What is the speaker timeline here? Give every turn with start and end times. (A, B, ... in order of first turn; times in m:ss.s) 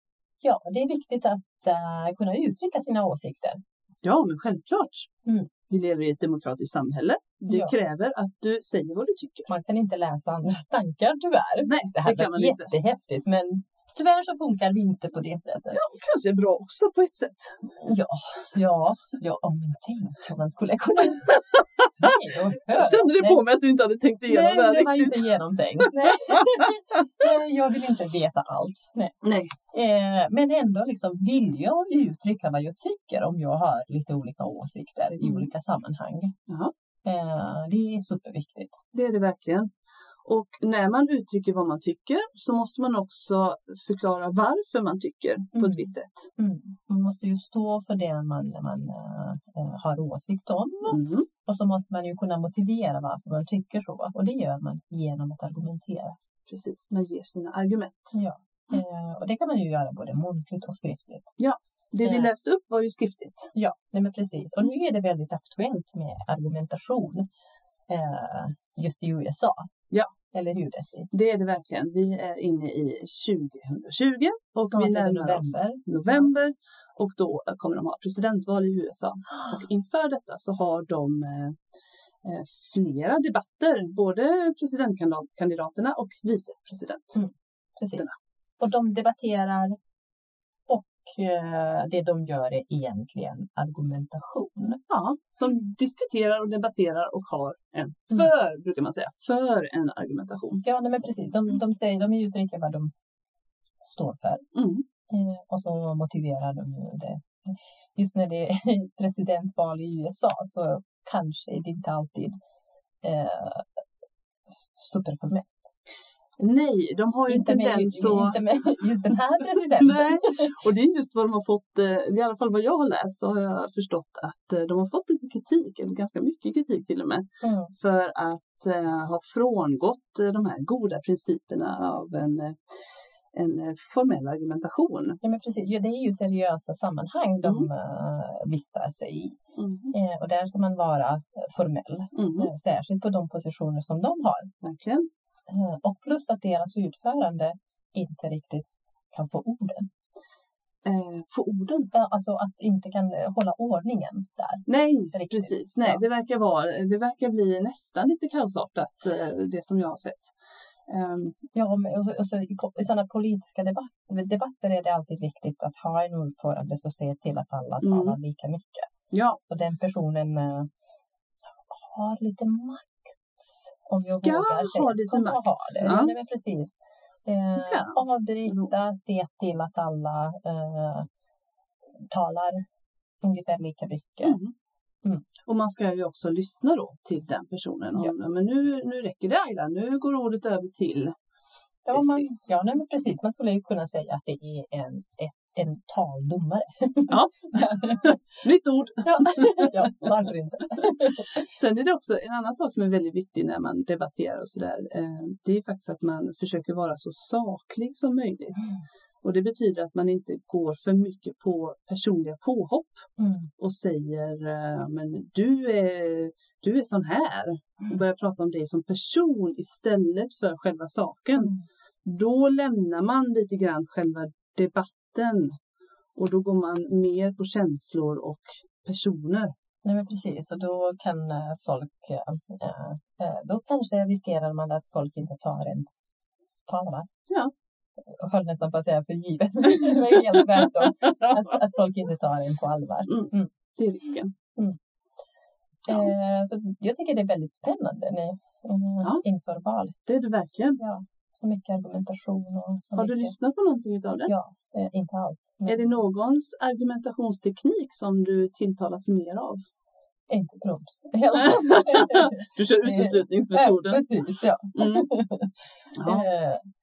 0:00.4-0:03.6 A
0:04.0-0:05.1 B
0:05.7-0:09.5 B
0:07.5-0:07.7 A
0:09.5-0:15.8 A
0:11.6-0:12.7 B
0:15.7-0:17.7 B
0:17.8-0:23.4 A
0:22.7-0:26.6 B
0:24.3-0:29.2 A
0:29.2-0:29.5 B
0:29.7-0:36.3 A
0:35.2-0:35.5 B
0:37.0-0:38.8 A
0:38.9-0:39.7 B
0:40.2-0:46.3 B
0:45.6-0:56.2 A
0:50.9-0:51.3 B
0:56.5-0:58.2 B
0:58.1-1:01.3 A
1:01.4-1:03.5 B
1:02.0-1:02.3 A
1:03.5-1:07.2 A
1:07.9-1:09.7 A
1:10.3-1:11.1 A
1:11.1-1:21.6 B
1:14.7-1:16.2 A
1:22.2-1:27.2 B
1:27.1-1:28.0 A
1:28.6-1:29.8 A
1:30.7-1:34.8 A
1:34.9-1:40.6 B
1:40.6-1:42.9 A
1:43.8-1:44.4 A
1:44.5-1:44.8 B
1:45.1-1:52.4 A
1:53.0-1:53.8 A
1:54.7-1:55.6 A
1:56.4-1:58.4 B
1:57.3-2:00.5 A
1:59.5-2:12.6 B
2:07.4-2:07.7 A
2:13.3-2:15.2 B
2:15.2-2:19.4 A
2:17.4-2:17.7 B
2:19.6-2:19.9 B
2:19.9-2:24.5 A
2:22.1-2:22.5 B
2:24.6-2:25.1 B
2:25.5-2:29.9 A
2:30.8-2:31.9 B
2:31.9-2:36.0 A
2:34.6-2:40.3 B
2:40.9-2:41.4 B
2:41.5-2:48.9 A
2:47.8-2:48.2 B
2:49.1-2:49.4 B
2:49.5-2:50.7 A
2:51.6-3:01.1 A
2:53.9-2:56.1 B
2:57.6-2:58.7 B
3:02.1-3:02.6 A
3:03.2-3:04.4 A
3:04.2-3:04.5 B
3:05.4-3:11.1 B
3:11.8-3:18.2 A
3:11.9-3:12.3 B
3:17.1-3:20.1 B
3:19.0-3:21.5 A
3:21.3-3:33.0 B
3:33.2-3:33.5 A
3:33.6-3:41.5 B
3:42.0-3:45.5 B
3:46.2-3:49.5 B
3:49.8-3:55.9 A
3:56.6-3:57.1 A
3:58.1-4:03.5 A
4:03.1-4:04.3 B
4:05.8-4:10.0 A
4:10.0-4:10.8 B
4:10.8-4:13.3 A
4:13.0-4:14.3 B
4:14.3-4:15.9 A
4:15.7-4:19.6 B
4:20.3-4:26.6 A
4:21.6-4:24.1 B
4:24.8-4:25.1 B
4:25.9-4:26.3 B